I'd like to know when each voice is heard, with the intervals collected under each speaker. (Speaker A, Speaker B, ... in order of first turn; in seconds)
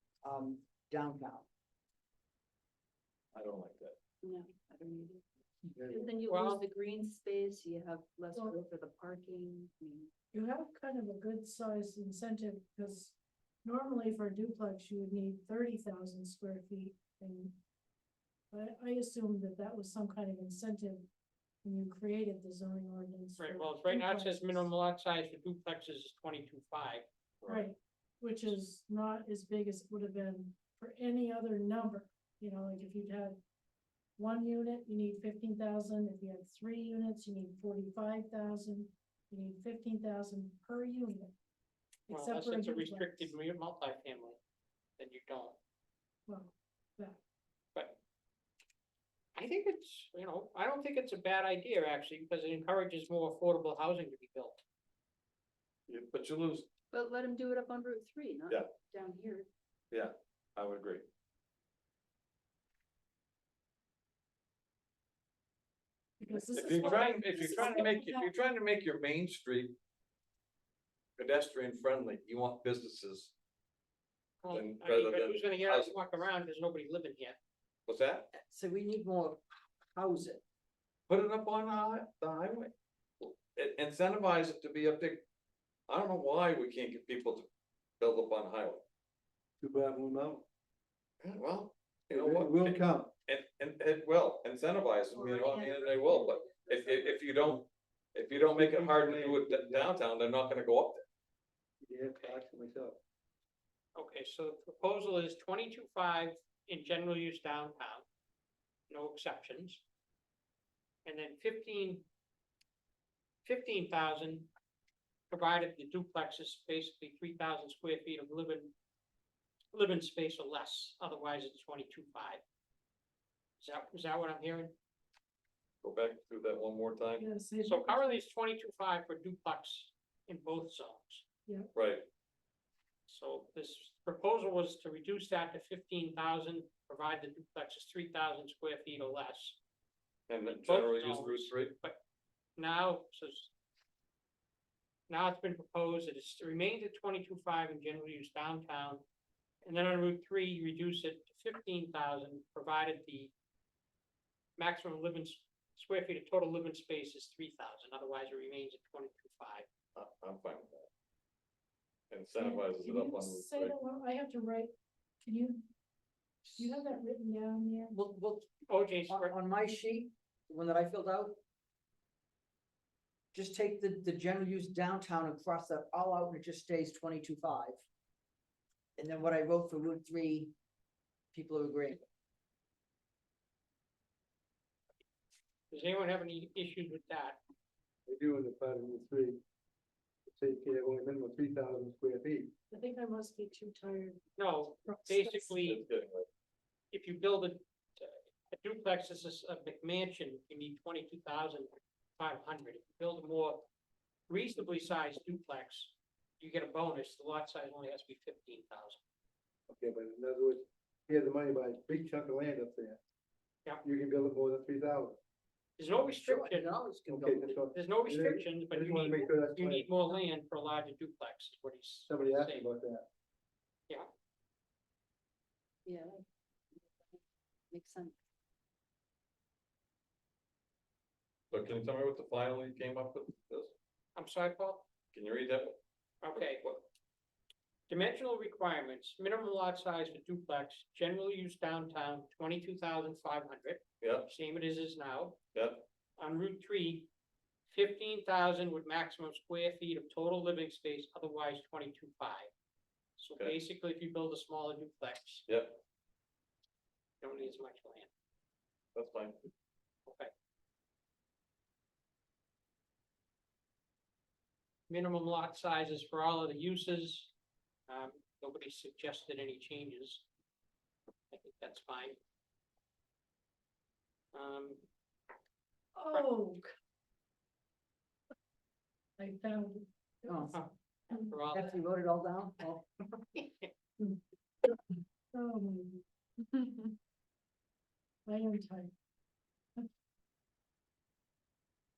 Speaker A: 0.2-1.5, 78.3-80.4, 166.5-166.8, 167.9-168.5, 169.1-171.4, 173.3-177.8, 179.0-180.5, 181.3-182.0, 216.2-217.6, 280.3-280.5, 281.5-282.8
Speaker B: 3.3-3.9, 27.4-27.7, 55.9-56.7, 59.9-61.0, 66.5-69.8, 71.2-73.3, 74.5-76.0, 77.9-78.3, 81.1-85.2, 85.9-87.5, 88.0-88.8, 91.2-101.0, 125.8-127.2, 131.7-132.1, 140.3-141.7, 159.9-160.9, 162.1-163.7, 195.5-196.3, 231.5-233.7, 235.1-235.8, 236.3-236.8, 244.0-244.3, 245.5-245.8, 255.5-255.8, 258.9-259.5
Speaker C: 4.2-5.2, 5.8-10.1, 56.9-59.5, 95.8-97.2, 225.8-228.2
Speaker D: 5.6-6.2, 89.6-90.4, 92.1-93.1, 98.3-100.0, 101.8-103.0, 188.1-189.4, 190.3-192.5, 209.7-213.0, 213.8-215.2, 217.1-219.9, 222.1-223.1
Speaker E: 6.3-6.6, 23.4-27.0, 42.1-44.4, 45.0-45.6, 49.4-54.6, 66.9-67.8, 74.4-77.4, 102.1-102.4, 104.0-108.0, 108.9-109.8, 111.0-112.1, 113.4-114.5, 115.3-118.7, 119.7-122.4, 123.6-124.7, 127.6-131.2, 133.1-139.6, 140.4-142.0, 142.6-143.5, 145.1-149.0, 149.6-153.3, 154.6-159.7, 168.7-169.3, 185.7-187.4, 194.4-195.8, 196.9-203.7, 204.3-209.0, 215.8-216.7, 217.7-222.7, 234.1-234.9, 236.2-236.7, 237.9-245.4, 246.2-247.1, 247.7-252.5, 253.2-255.4, 257.2-258.1, 264.9-267.3, 267.9-270.2, 271.3-272.2, 274.3-274.8, 280.5-281.8, 283.3-283.7
Speaker F: 10.3-17.6, 18.5-21.1, 21.6-24.7, 27.5-33.4, 34.2-41.4, 42.1-43.3, 46.3-47.2, 66.2-68.3, 95.1-95.8, 127.2-128.2, 131.4-131.7, 162.4-165.7, 166.6-167.9, 192.7-194.2, 194.8-195.6, 275.9-276.7, 279.2-281.3, 284.0-284.8, 285.3-286.9, 288.2-288.9